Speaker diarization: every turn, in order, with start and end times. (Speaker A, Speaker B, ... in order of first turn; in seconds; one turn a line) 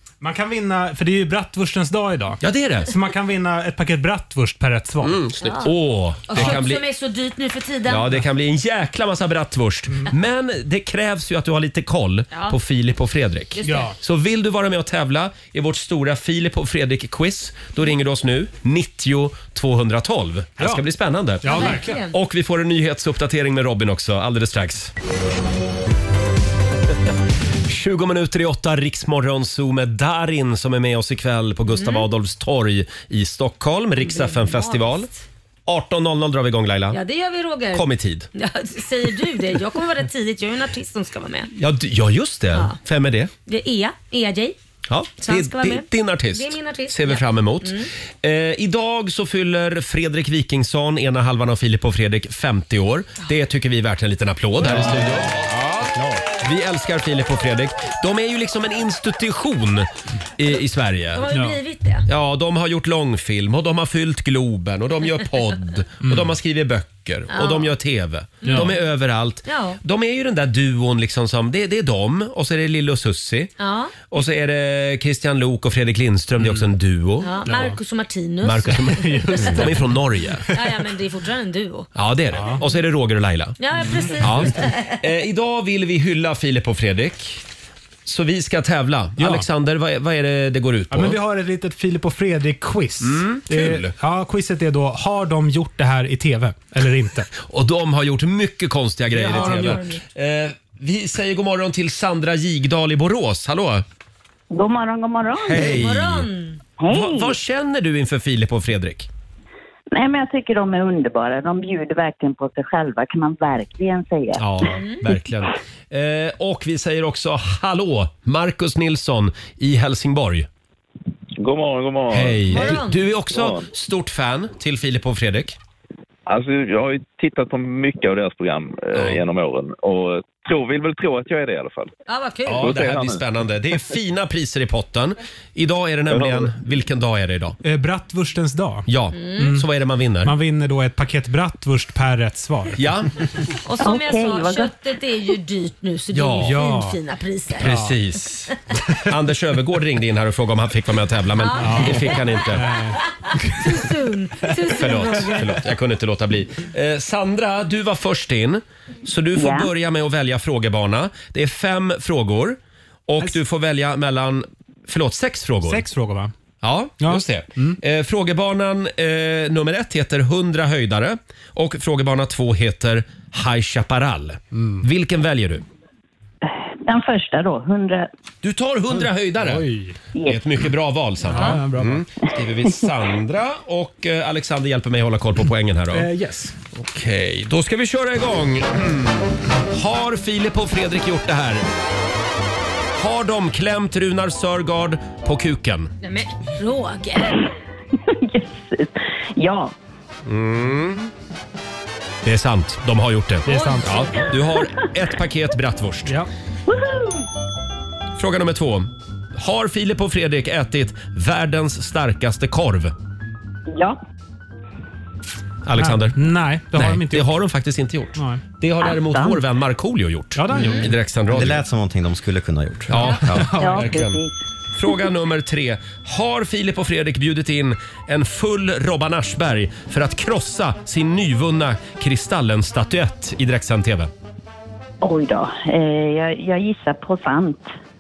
Speaker A: 0.2-5.3
Speaker B: 2.4-3.0
Speaker B: 5.0-6.8
Speaker C: 5.4-5.8
Speaker C: 6.3-8.1
Speaker A: 6.3-6.6
Speaker B: 7.9-24.9
Speaker C: 12.3-12.6
Speaker C: 13.6-13.9
Speaker A: 13.6-14.0
Speaker A: 20.6-20.9
Speaker A: 21.4-22.0
Speaker C: 21.5-22.1
Speaker B: 27.7-35.1
Speaker C: 31.7-32.1
Speaker C: 34.0-35.2
Speaker B: 35.7-37.0
Speaker C: 36.9-41.5
Speaker B: 37.7-38.3
Speaker B: 41.6-43.3
Speaker C: 42.5-42.8
Speaker C: 43.5-44.6
Speaker B: 44.9-61.3
Speaker C: 45.2-47.9
Speaker A: 54.6-56.2
Speaker C: 61.1-62.1
Speaker A: 61.3-61.6
Speaker B: 62.1-73.5
Speaker A: 66.0-66.3
Speaker C: 67.3-67.7
Speaker C: 68.4-68.7
Speaker A: 68.4-68.8
Speaker C: 69.5-69.8
Speaker C: 73.6-74.0
Speaker B: 74.1-77.6
Speaker C: 77.2-79.6
Speaker A: 77.5-77.8
Speaker B: 78.4-80.5
Speaker A: 78.9-79.9
Speaker C: 80.5-81.9
Speaker B: 82.0-83.6
Speaker A: 82.3-82.6
Speaker C: 83.6-85.0
Speaker B: 84.2-87.4
Speaker B: 88.0-91.2
Speaker A: 89.2-89.5
Speaker A: 90.9-97.3
Speaker B: 93.0-93.9
Speaker B: 97.4-103.8
Speaker A: 99.1-99.8
Speaker C: 99.3-100.0
Speaker D: 104.5-105.8
Speaker B: 105.4-106.3
Speaker C: 105.5-106.6
Speaker D: 106.8-107.4
Speaker B: 106.9-109.1
Speaker D: 109.9-114.5
Speaker B: 114.4-120.5
Speaker C: 114.7-115.0
Speaker E: 121.4-123.7
Speaker B: 122.1-125.6
Speaker C: 122.5-123.0
Speaker E: 126.3-131.9
Speaker B: 128.9-129.2
Speaker C: 132.1-132.7
Speaker B: 132.5-137.6
Speaker E: 132.6-133.2
Speaker E: 136.1-136.5
Speaker A: 137.6-139.7
Speaker B: 138.9-140.3
Speaker C: 139.2-139.4
Speaker A: 140.2-142.8
Speaker B: 142.8-143.1
Speaker C: 143.7-147.8
Speaker D: 143.8-144.7
Speaker B: 146.1-146.6
Speaker A: 146.4-147.0
Speaker B: 147.6-152.7
Speaker A: 147.6-147.9
Speaker C: 151.4-155.5
Speaker A: 151.6-153.7
Speaker B: 154.8-165.9
Speaker D: 159.3-159.7
Speaker A: 165.6-166.3
Speaker B: 166.6-175.6
Speaker A: 167.0-167.8
Speaker A: 174.5-174.8
Speaker D: 176.8-178.1
Speaker B: 178.4-179.7
Speaker A: 179.4-179.9
Speaker D: 180.1-180.5
Speaker B: 180.3-186.1
Speaker A: 181.2-182.0
Speaker A: 185.9-186.5
Speaker B: 186.7-191.7
Speaker B: 193.0-195.9
Speaker C: 196.0-197.4
Speaker D: 198.1-199.7
Speaker B: 200.3-201.0
Speaker B: 202.2-206.2
Speaker A: 203.5-204.3
Speaker C: 203.5-204.3
Speaker D: 206.7-207.2
Speaker B: 208.2-212.9
Speaker D: 213.7-214.0
Speaker B: 215.6-216.2
Speaker A: 215.8-217.4
Speaker B: 216.7-221.6
Speaker A: 218.2-218.4
Speaker D: 218.8-219.4
Speaker A: 220.3-220.9
Speaker F: 221.3-223.5
Speaker B: 222.9-224.2
Speaker A: 222.9-224.0
Speaker D: 223.6-224.3
Speaker B: 224.8-234.1
Speaker D: 235.0-237.7